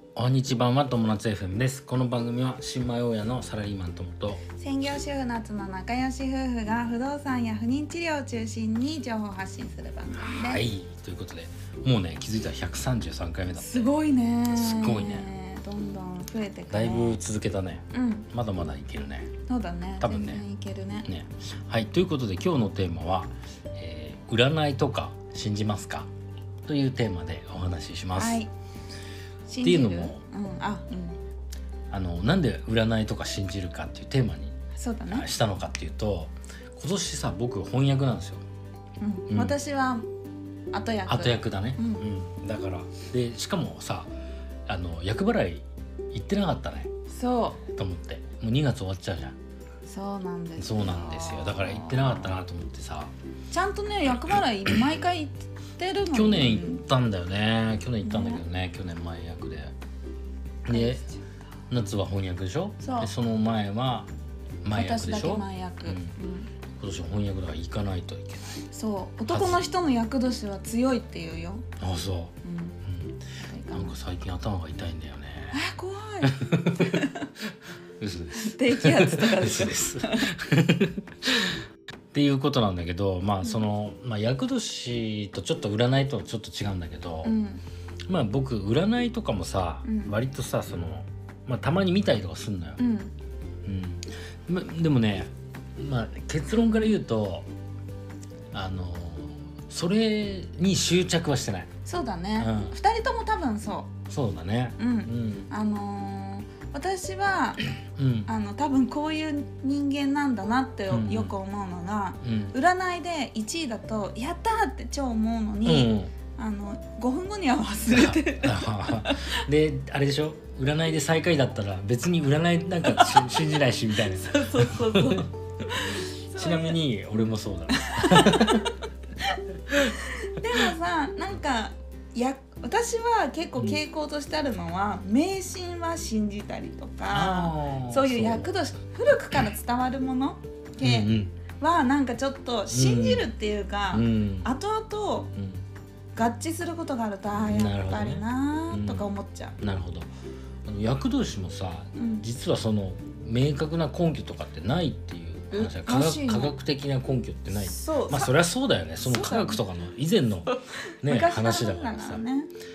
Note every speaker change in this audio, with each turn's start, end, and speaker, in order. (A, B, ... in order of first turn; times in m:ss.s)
0:00.2-0:04.4 A
0:04.5-0:10.6 B
0:10.1-0:13.9 A
0:13.6-0:17.2 B
0:14.5-0:15.3 A
0:16.7-0:19.3 A
0:17.9-0:18.3 B
0:19.5-0:21.1 B
0:20.0-0:20.4 A
0:21.0-0:26.1 A
0:26.6-0:28.4 A
0:28.2-0:28.5 B
0:29.4-0:31.2 B
0:29.6-0:30.2 A
0:31.9-0:34.5 A
0:34.7-0:35.3 B
0:35.1-0:38.4 A
0:39.0-0:40.1 B
0:39.3-0:39.6 A
0:40.7-0:42.0 B
0:41.1-0:44.1 A
0:44.7-0:46.9 A
0:47.1-0:47.6 B
0:47.7-0:49.4 A
0:49.8-0:52.3 B
0:50.6-0:53.1 A
0:53.5-0:56.8 B
0:56.1-0:59.7 A
0:58.0-0:58.4 B
1:00.6-1:01.0 A
1:00.7-1:01.2 B
1:01.7-1:04.1 A
1:02.8-1:03.1 B
1:04.6-1:06.1 A
1:04.7-1:06.5 B
1:06.8-1:08.6 A
1:08.7-1:11.6 B
1:09.3-1:09.6 A
1:11.8-1:13.2 A
1:12.4-1:14.0 B
1:13.7-1:15.6 A
1:15.5-1:17.3 B
1:16.2-1:17.0 A
1:18.0-1:21.6 A
1:18.3-1:20.3 B
1:22.1-1:27.4 A
1:27.2-1:27.6 B
1:28.1-1:32.8 A
1:29.8-1:30.2 B
1:32.8-1:33.1 B
1:33.6-1:37.5 A
1:38.5-1:41.7 A
1:41.8-1:43.9 B
1:42.4-1:42.8 A
1:44.1-1:45.5 A
1:44.8-1:47.7 B
1:48.0-1:48.3 A
1:48.3-1:59.4 B
1:50.9-1:51.3 A
1:52.2-1:52.6 A
1:55.6-1:56.1 A
1:57.9-2:05.2 A
2:02.8-2:03.5 B
2:04.1-2:25.3 B
2:06.3-2:08.8 A
2:17.1-2:18.6 A
2:20.8-2:21.3 A
2:22.7-2:23.3 A
2:23.9-2:24.5 A
2:25.4-2:25.6 A
2:26.1-2:29.6 B
2:27.3-2:29.1 A
2:29.6-2:30.1 A
2:30.6-2:42.2 A
2:32.0-2:32.2 B
2:35.5-2:36.6 B
2:37.5-2:38.3 B
2:39.0-2:39.6 B
2:40.5-2:42.5 B